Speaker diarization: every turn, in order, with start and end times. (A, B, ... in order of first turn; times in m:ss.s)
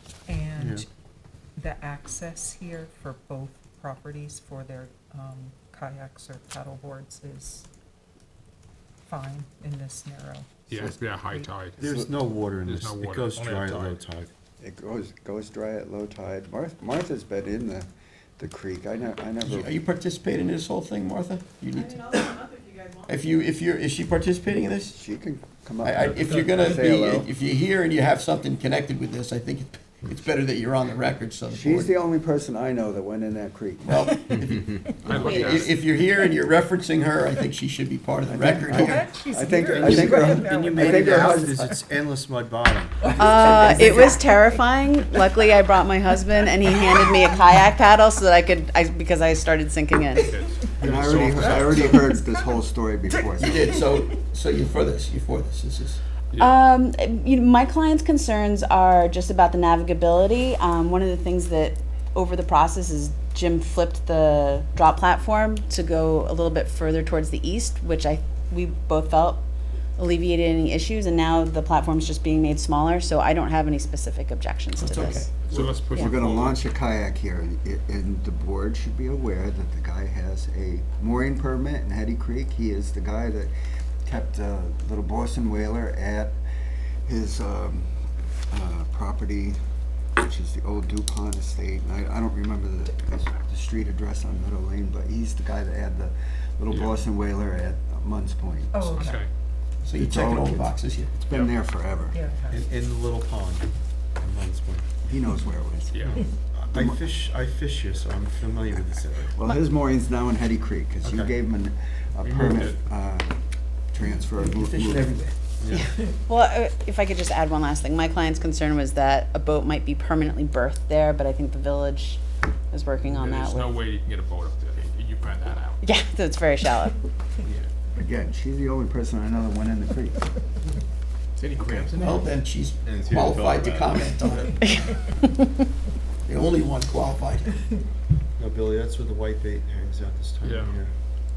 0:00.3-0:00.9 A
0:00.6-0:00.9 B
0:01.6-0:07.7 A
0:09.1-0:11.7 A
0:10.7-0:11.8 C
0:11.8-0:14.3 B
0:11.8-0:12.1 D
0:12.6-0:14.0 C
0:14.6-0:19.8 D
0:19.4-0:25.0 E
0:24.9-0:27.3 D
0:25.8-0:31.9 E
0:31.5-0:34.1 D
0:33.9-0:39.2 E
0:35.0-0:35.7 C
0:35.2-0:35.6 F
0:38.3-0:41.7 D
0:38.6-0:41.7 A
0:39.7-0:43.8 B
0:43.1-0:50.3 F
0:43.2-0:43.9 D
0:43.8-0:44.2 A
0:50.2-0:52.2 C
0:50.8-0:53.8 D
0:53.4-0:56.0 E
0:56.4-1:09.4 F
1:10.0-1:15.4 F
1:14.8-1:15.3 E
1:15.4-1:16.7 C
1:15.5-1:23.5 D
1:24.1-1:26.4 D
1:27.0-1:29.6 D
1:30.2-1:39.0 D
1:36.7-1:37.0 C
1:38.7-1:39.2 A
1:39.0-1:39.3 C
1:39.8-1:41.1 E
1:39.9-1:42.2 D
1:42.1-1:42.7 A
1:42.5-1:44.9 B
1:45.0-1:46.2 D
1:45.9-1:46.2 C
1:46.0-1:49.4 B
1:46.7-1:47.0 D
1:49.4-1:55.2 D
1:51.0-1:51.3 B
1:52.2-1:52.8 C
1:54.4-1:55.4 E
1:55.6-1:55.9 B
1:55.7-2:03.8 F
2:03.1-2:05.8 C
2:05.8-2:07.0 F
2:08.0-2:10.3 D
2:11.4-2:12.3 C
2:12.0-2:15.0 E
2:12.8-2:14.5 B
2:14.6-2:15.4 F
2:16.3-2:17.6 E
2:18.4-2:20.9 B
2:20.4-2:20.8 C